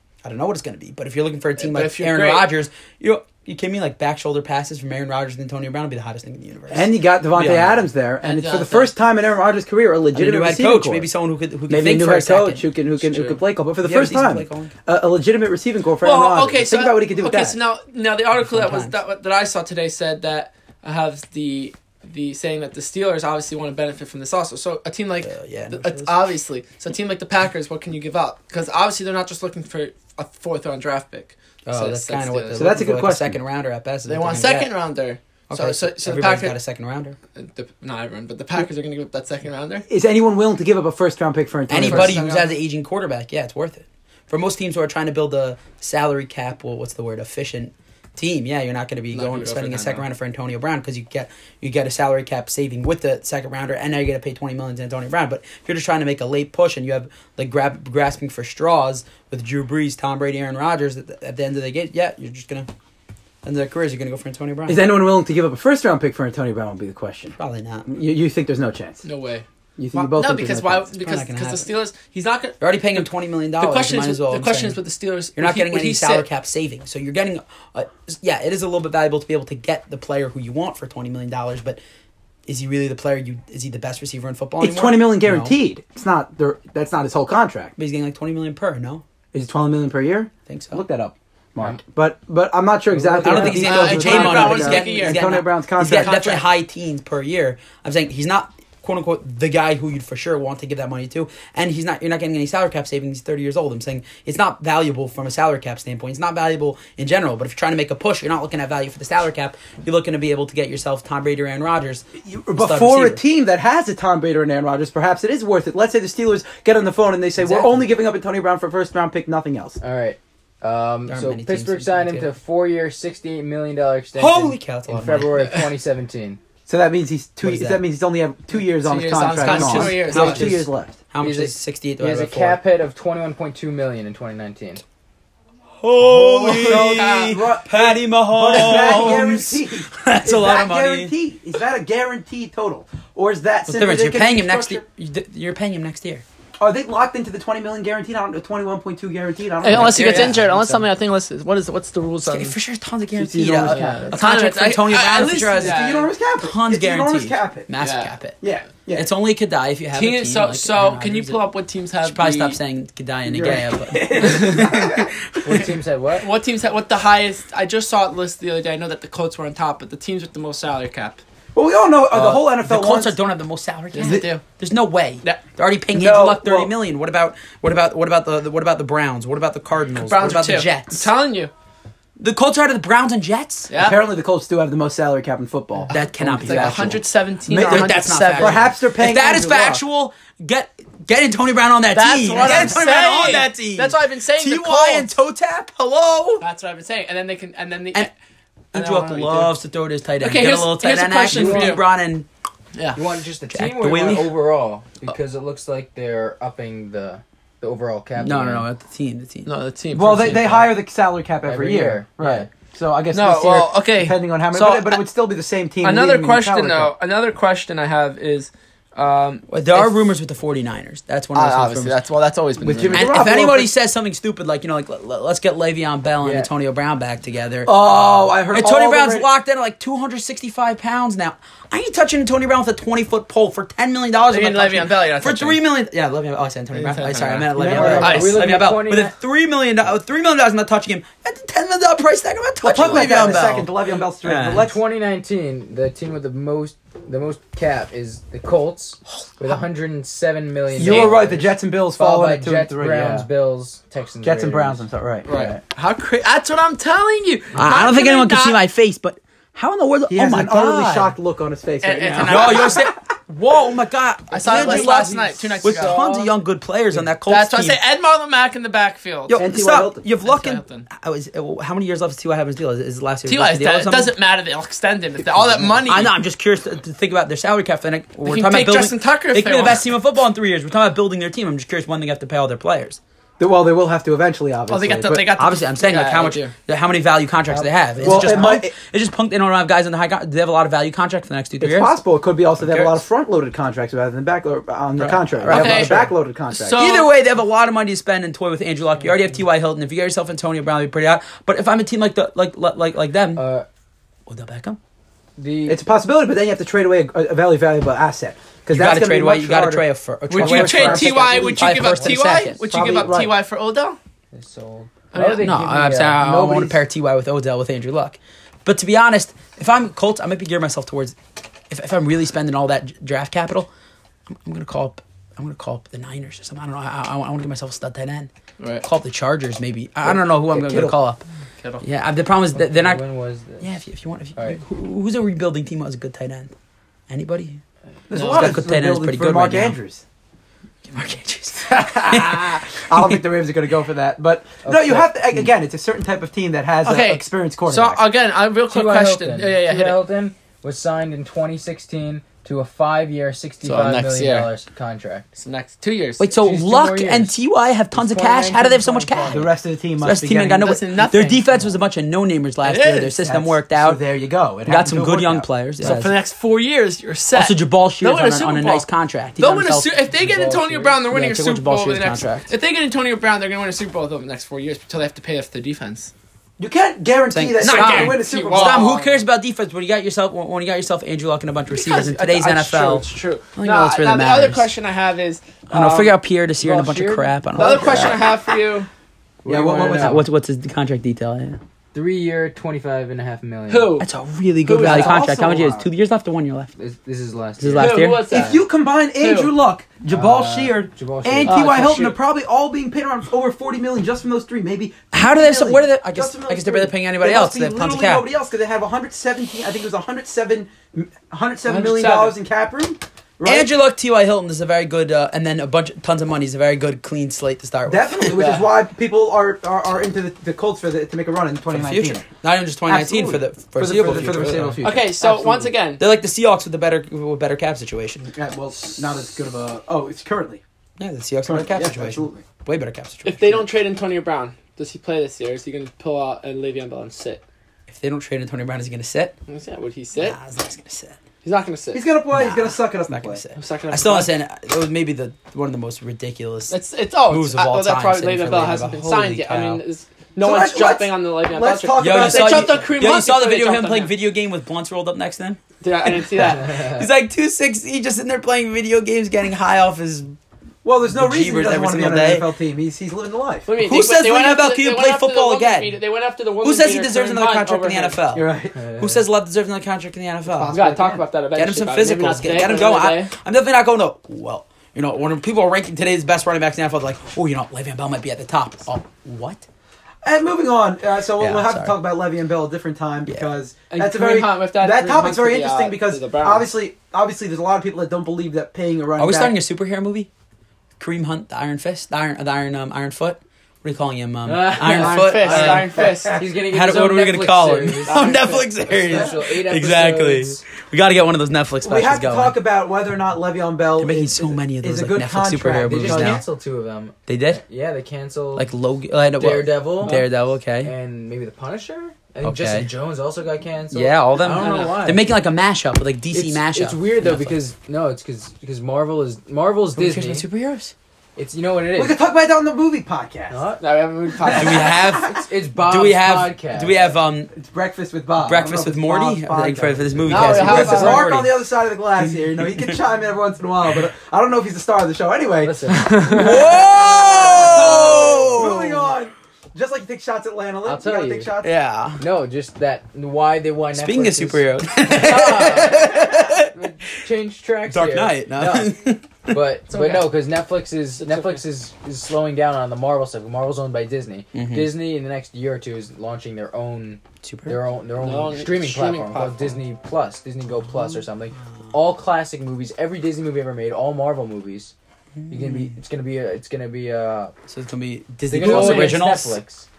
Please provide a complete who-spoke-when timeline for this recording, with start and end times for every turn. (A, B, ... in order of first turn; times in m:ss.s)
0:00.2-0:07.8 A
0:01.6-0:02.5 B
0:06.7-0:11.1 C
0:08.2-0:08.9 B
0:10.1-0:13.3 A
0:11.7-0:17.6 C
0:13.8-0:14.7 A
0:16.0-0:32.8 B
0:18.4-0:19.0 A
0:25.2-0:26.2 A
0:31.7-0:34.7 A
0:32.6-0:33.4 C
0:34.1-0:36.6 B
0:35.5-0:37.2 A
0:37.4-0:39.9 B
0:39.9-0:42.2 C
0:41.7-1:02.7 A
0:41.7-0:42.6 B
0:49.1-0:50.1 B
1:03.4-1:04.8 A
1:04.7-1:07.4 C
1:07.4-1:07.9 A
1:07.9-1:09.0 C
1:09.0-1:16.3 B
1:09.8-1:10.9 C
1:11.0-1:11.7 A
1:12.6-1:14.8 A
1:15.4-1:21.8 A
1:22.4-1:25.6 A
1:24.6-1:27.7 C
1:27.8-1:29.0 A
1:29.3-1:36.2 C
1:30.5-1:30.8 A
1:32.9-1:33.9 D
1:33.2-1:52.0 A
1:33.4-1:36.5 B
1:52.2-1:59.8 C
1:52.6-1:53.2 A
1:57.4-1:57.8 A
1:59.8-2:06.4 D
2:01.1-2:02.3 A
2:04.2-2:05.5 A
2:06.7-2:11.0 C
2:07.4-2:07.8 A
2:08.7-2:10.6 B
2:09.3-2:12.6 A
2:11.2-2:14.8 D
2:15.8-2:21.1 A
2:16.0-2:24.8 C
2:16.4-2:17.4 B
2:23.7-2:26.2 A
2:26.6-2:30.4 C
2:29.6-2:32.6 B
2:29.7-2:30.3 A
2:29.8-2:30.9 D
2:32.3-2:38.4 A
2:33.2-2:33.8 C
2:33.6-2:36.1 B
2:33.6-2:34.2 D
2:35.5-2:37.7 C
2:37.8-2:38.2 B
2:38.4-2:39.1 C
2:38.9-2:41.4 A
2:39.9-2:42.6 B
2:42.0-2:45.6 A
2:43.3-2:45.1 C
2:45.4-2:46.3 D
2:46.2-2:51.2 B
2:51.6-2:53.1 C
2:52.1-3:01.1 A
2:53.9-2:54.4 B
2:54.0-2:54.3 C
2:55.9-2:56.7 C
2:59.9-3:01.5 B
3:02.2-3:03.7 A
3:03.7-3:04.0 B
3:03.8-3:09.8 C
3:05.9-3:08.7 B
3:05.9-3:16.4 A
3:11.9-3:15.1 B
3:16.4-3:18.1 B
3:18.7-3:19.5 B
3:18.7-3:22.3 A
3:20.2-3:21.8 B
3:21.3-3:21.8 D
3:22.8-3:23.0 B
3:22.9-3:28.7 D
3:23.5-3:24.3 A
3:28.2-3:29.5 A
3:29.4-3:30.7 B
3:29.9-3:36.9 C
3:31.4-3:32.5 D
3:33.1-3:34.2 B
3:34.5-3:35.0 A
3:35.8-3:40.1 B
3:39.5-3:42.0 A
3:41.3-3:43.2 B
3:42.6-3:43.7 C
3:42.9-3:47.8 A
3:46.2-3:46.5 D
3:47.7-3:49.3 C
3:48.5-4:04.7 A
3:54.2-3:55.6 B
3:56.7-3:58.5 B
3:57.6-3:58.4 C
3:57.6-3:59.1 D
4:02.6-4:04.8 C
4:03.1-4:03.5 D
4:04.4-4:15.6 D
4:10.8-4:13.3 C
4:10.8-4:11.1 A
4:14.2-4:15.3 C
4:15.2-4:18.6 B
4:17.6-4:21.2 A
4:20.1-4:22.9 C
4:21.8-4:22.9 B
4:22.2-4:27.8 A
4:24.3-4:26.3 B
4:24.5-4:26.2 D
4:27.2-4:29.4 B
4:29.3-4:34.1 A
4:29.3-4:30.0 C
4:30.2-4:30.9 B
4:33.2-4:36.1 B
4:35.3-4:35.8 C
4:35.9-4:43.0 A
4:38.2-4:39.9 B
4:43.4-4:45.3 C
4:44.7-4:46.5 B
4:45.3-4:52.0 A
4:47.5-4:48.7 C
4:48.1-4:48.4 B
4:51.6-4:56.8 C
4:52.6-4:53.0 A
4:55.0-4:56.1 A
4:55.4-4:57.1 B
4:56.7-5:03.4 A
5:03.4-5:03.7 D
5:04.3-5:04.8 A
5:05.4-5:05.8 D
5:05.7-5:11.8 C
5:08.7-5:12.7 A
5:10.3-5:14.0 B
5:12.6-5:13.4 C
5:14.3-5:16.2 D
5:15.1-5:15.6 B
5:15.3-5:21.2 A
5:16.2-5:16.8 C
5:21.7-5:23.7 A
5:24.3-5:28.3 A
5:28.6-5:28.8 B
5:28.8-5:31.2 A
5:30.0-5:31.0 C
5:31.8-5:33.0 A
5:32.6-5:33.7 D
5:33.6-5:36.5 A
5:34.4-5:34.6 D
5:37.1-5:37.6 A
5:38.1-5:40.0 C
5:38.1-5:38.6 B
5:38.2-5:39.8 A
5:40.9-5:43.2 A
5:41.6-5:48.0 C
5:44.6-5:45.1 D
5:46.8-5:50.0 B
5:48.7-5:55.3 D
5:53.6-5:54.5 B
5:55.4-5:56.3 B
5:56.2-6:04.0 A
5:56.4-5:57.4 D
5:57.9-5:59.5 D
5:59.3-6:00.8 C
6:00.6-6:01.6 B
6:02.6-6:03.2 B
6:03.2-6:05.5 C
6:04.7-6:06.2 A
6:05.8-6:08.9 B
6:07.3-6:09.9 A
6:09.4-6:16.1 B
6:10.1-6:11.0 D
6:11.1-6:12.5 A
6:16.6-6:18.9 C
6:17.3-6:24.7 A
6:17.6-6:19.2 B
6:21.7-6:26.1 B
6:25.7-6:28.3 A
6:26.6-6:28.0 D
6:27.6-6:28.9 B
6:29.4-6:30.2 C
6:29.4-6:30.2 D
6:29.8-6:31.6 A
6:31.9-6:33.9 D
6:33.7-6:34.1 B
6:34.0-6:36.7 A
6:34.6-6:35.3 B
6:34.7-6:35.9 C
6:36.8-6:38.5 D
6:37.6-6:38.4 A
6:37.8-6:38.6 B
6:38.3-6:53.7 C
6:39.2-6:39.5 B
6:40.1-6:41.7 D
6:41.4-6:42.2 B
6:45.1-6:48.2 A
6:51.7-6:52.4 B
6:53.4-6:58.4 A
6:57.9-7:02.3 C
6:58.3-6:58.7 B
7:01.7-7:08.3 A
7:02.9-7:05.2 C
7:04.1-7:06.0 B
7:08.2-7:10.6 C
7:11.0-7:13.7 A
7:11.5-7:12.4 C
7:13.2-7:17.4 B
7:17.9-7:19.4 A
7:19.5-7:20.4 B
7:20.2-7:21.2 A
7:21.4-7:22.0 B
7:21.9-7:23.4 C
7:22.3-7:26.8 A
7:23.6-7:24.4 B
7:26.7-7:34.1 B
7:27.3-7:29.8 A
7:30.4-7:32.8 C
7:32.0-7:40.4 A
7:35.8-7:36.9 B
7:40.8-7:43.7 C
7:41.1-7:42.4 A
7:43.7-7:48.2 B
7:43.8-7:45.9 A
7:46.6-7:50.8 A
7:48.3-7:48.8 C
7:48.8-7:49.2 D
7:50.5-7:51.2 C
7:50.7-7:53.3 B
7:51.6-7:59.7 A
8:00.2-8:09.6 C
8:01.4-8:02.0 A
8:03.9-8:06.7 B
8:09.2-8:10.3 A
8:11.0-8:22.6 A
8:14.4-8:20.6 D
8:14.8-8:16.4 B
8:15.9-8:16.4 C
8:18.0-8:18.7 B
8:21.8-8:26.4 C
8:24.0-8:26.4 A
8:25.8-8:28.7 D
8:27.3-8:27.6 A
8:28.6-8:30.9 A
8:29.4-8:35.3 D
8:32.4-8:32.9 A
8:33.9-8:37.6 A
8:34.6-8:35.0 B
8:36.3-8:40.5 D
8:40.0-8:40.9 A
8:41.4-8:42.2 D
8:42.0-8:43.6 C
8:43.5-8:43.8 D
8:43.8-8:45.2 B
8:44.4-8:45.1 C
8:44.4-8:47.5 A
8:45.1-8:47.1 D
8:47.5-9:01.8 C
8:48.4-8:51.6 A
8:50.3-8:51.2 D
8:50.3-8:51.4 B
8:55.6-8:56.6 D
8:55.9-8:56.8 B
8:56.3-8:59.1 A
9:00.8-9:01.5 D
9:01.6-9:02.2 A
9:02.2-9:08.9 D
9:03.9-9:06.8 A
9:07.9-9:09.6 A
9:09.5-9:24.9 D
9:09.9-9:10.4 B
9:11.2-9:11.6 B
9:14.5-9:14.9 A
9:17.4-9:17.8 A
9:18.2-9:19.8 B
9:25.4-9:25.9 A
9:25.5-9:27.5 D
9:27.7-9:29.6 A
9:28.5-9:29.9 D
9:28.6-9:29.1 B